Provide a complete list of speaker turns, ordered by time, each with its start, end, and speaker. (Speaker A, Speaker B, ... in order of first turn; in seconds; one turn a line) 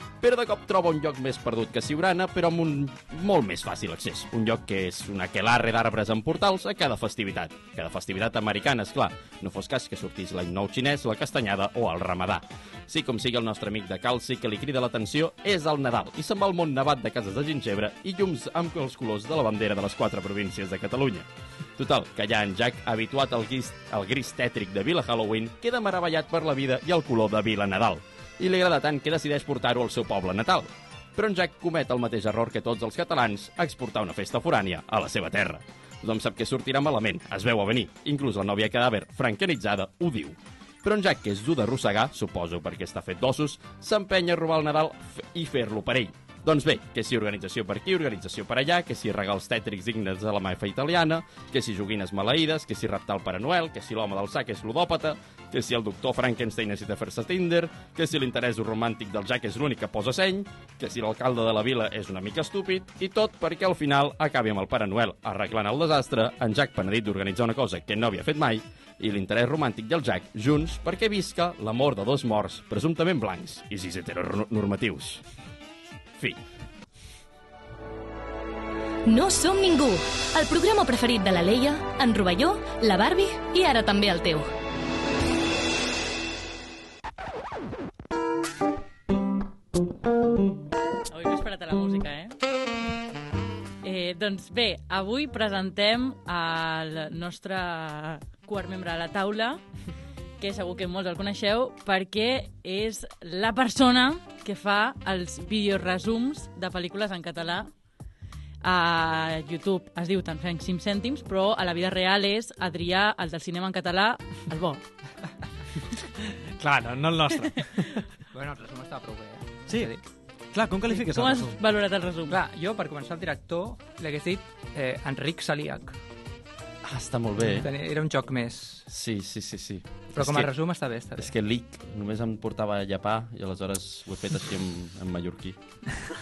Speaker A: 0.2-75.2
Speaker B: 79.0-84.5
Speaker C: 91.1-92.3
Speaker C: 93.8-99.6
Speaker C: 100.4-107.7
Speaker C: 108.6-114.8
Speaker D: 116.2-118.0
Speaker E: 118.3-120.0
Speaker D: 120.5-121.6
Speaker C: 120.9-122.4
Speaker E: 122.3-126.0
Speaker A: 126.8-127.7
Speaker E: 127.4-128.9
Speaker A: 128.9-130.5
Speaker E: 130.1-131.3
Speaker A: 131.2-135.6